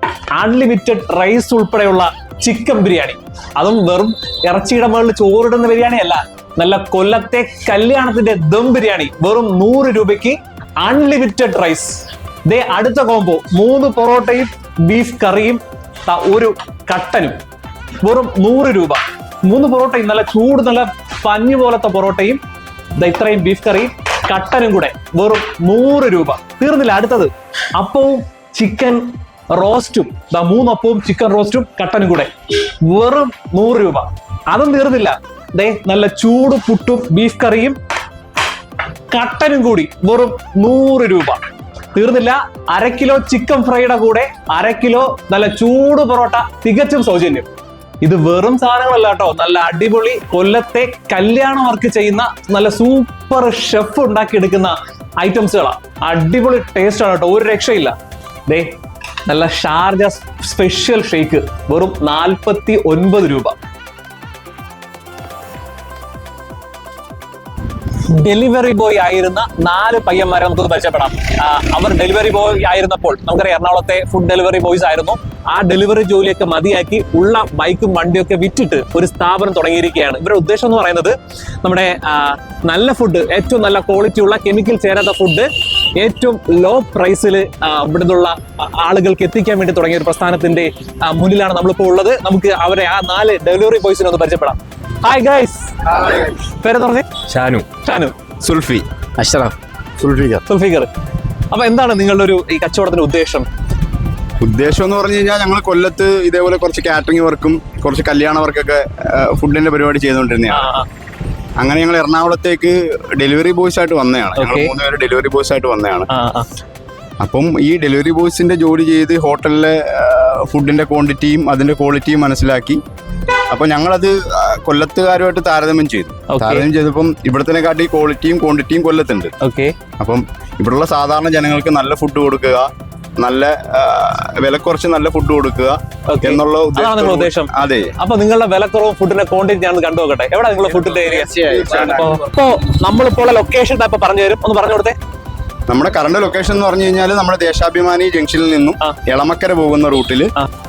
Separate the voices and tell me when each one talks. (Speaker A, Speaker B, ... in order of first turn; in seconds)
Speaker A: 0.3-17.4, 18.0-22.4, 23.0-37.8, 39.1-41.4, 41.9-47.5, 48.0-58.0, 58.5-63.5, 67.9-98.2, 100.5-100.9, 101.5-103.5, 110.5-110.9, 114.4-114.7, 116.1-116.5, 126.3-126.7, 129.4-129.7, 136.1-144.9
Speaker B: 98.4-98.8, 100.0-100.4, 104.4-110.7, 111.6-116.1, 117.2-122.8, 123.5-129.3, 130.0-137.9, 140.9-142.2, 145.7-150.3